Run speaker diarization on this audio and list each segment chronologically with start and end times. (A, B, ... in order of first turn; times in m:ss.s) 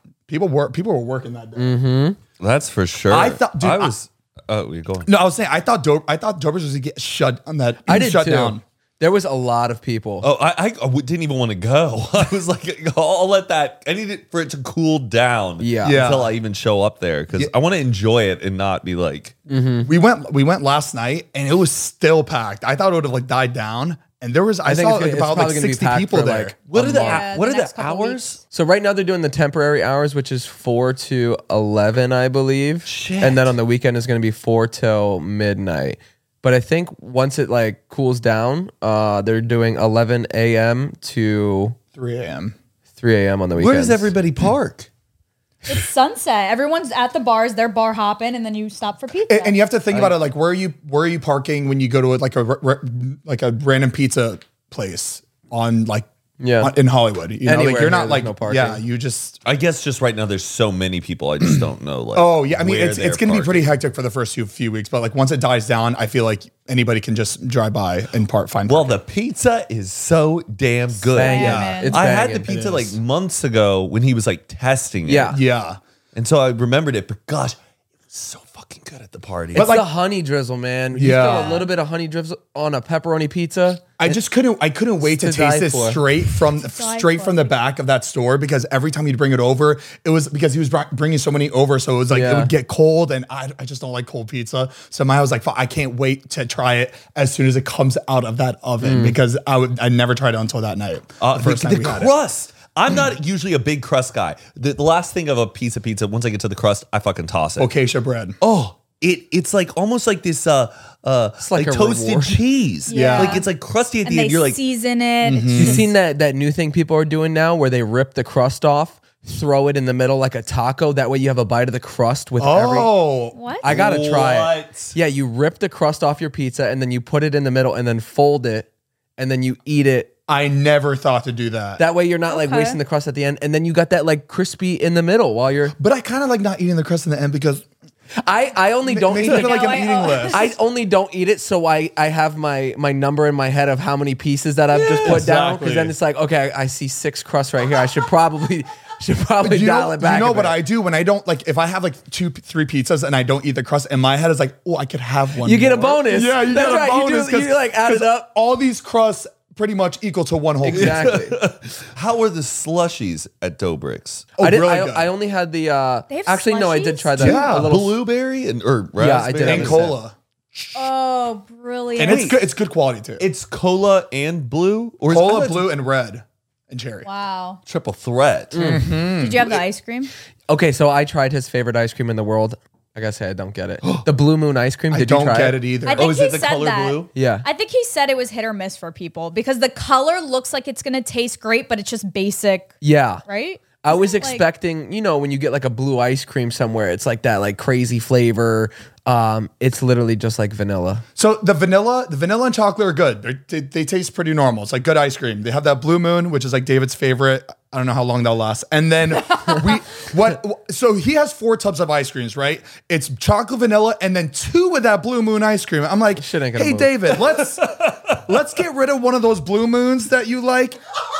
0:00.3-0:01.8 A
0:01.6-0:02.2 B
0:02.4-0:05.1 C
0:03.1-0:03.9 A
0:05.0-0:08.6 A
0:07.8-0:10.3 B
0:10.2-0:19.4 C
0:15.6-0:16.0 B
0:15.8-0:16.3 A
0:19.5-0:19.9 B
0:19.8-0:26.8 A
0:24.6-0:27.2 B
0:26.7-0:28.4 C
0:26.8-0:28.4 D
0:28.5-0:41.8 B
0:32.8-0:33.5 C
0:41.9-0:42.5 A
0:43.0-0:44.1 B
0:43.6-0:44.9 C
0:45.6-0:49.6 D
0:49.3-0:56.1 A
0:49.9-0:50.2 B
0:56.4-0:56.7 B
0:56.6-0:59.4 A
0:57.4-0:58.8 B
0:59.4-1:03.7 C
1:01.4-1:09.0 A
1:08.7-1:15.4 C
1:11.1-1:12.5 B
1:11.2-1:11.9 D
1:11.2-1:13.0 A
1:15.0-1:15.4 B
1:15.3-1:15.8 A
1:16.1-1:17.6 C
1:18.1-1:19.7 C
1:19.5-1:19.9 A
1:19.5-1:24.2 B
1:20.9-1:21.6 A
1:21.2-1:21.7 D
1:24.0-1:42.1 A
1:25.0-1:26.0 B
1:26.6-1:27.6 D
1:32.1-1:32.5 B
1:38.8-1:39.2 B
1:41.2-1:47.7 C
1:47.6-1:48.4 A
1:48.4-1:54.6 C
1:51.4-1:52.3 B
1:52.9-1:53.4 D
1:52.9-1:53.4 A
1:54.0-1:55.9 D
1:55.2-1:55.8 A
1:55.6-2:02.9 B
2:02.4-2:03.4 A
2:03.3-2:03.6 D
2:03.6-2:10.1 B
2:03.6-2:04.9 C
2:10.3-2:11.8 A
2:11.8-2:15.7 B
2:12.3-2:12.8 D
2:15.8-2:17.6 A
2:18.2-2:30.6 B
2:18.8-2:20.5 A
2:19.2-2:20.5 D
2:24.8-2:25.8 C
2:25.0-2:25.9 A
2:29.4-2:41.1 A
2:35.4-2:38.3 B
2:40.6-2:41.4 B
2:40.7-2:44.3 C
2:44.4-2:45.1 A
2:44.4-2:48.0 B
2:46.1-2:47.1 D
2:47.2-2:47.7 A
2:47.2-2:49.9 C
2:49.0-2:50.0 B
2:49.4-2:50.8 A
2:50.7-2:52.3 D
2:52.0-2:53.2 A
2:52.0-2:52.4 C
2:53.2-2:55.7 C
2:55.1-2:57.1 A
2:57.0-2:57.6 D
2:57.6-2:58.6 C
2:58.5-2:58.8 B
2:58.6-2:59.6 A
2:59.2-3:00.1 D
3:00.5-3:05.6 B
3:04.9-3:06.1 A
3:05.8-3:12.7 D
3:06.0-3:07.1 C
3:07.1-3:07.4 B
3:12.8-3:13.2 B
3:13.2-3:14.4 D
3:13.8-3:21.0 B
3:21.2-3:40.8 A
3:36.2-3:36.9 B
3:37.3-3:38.2 C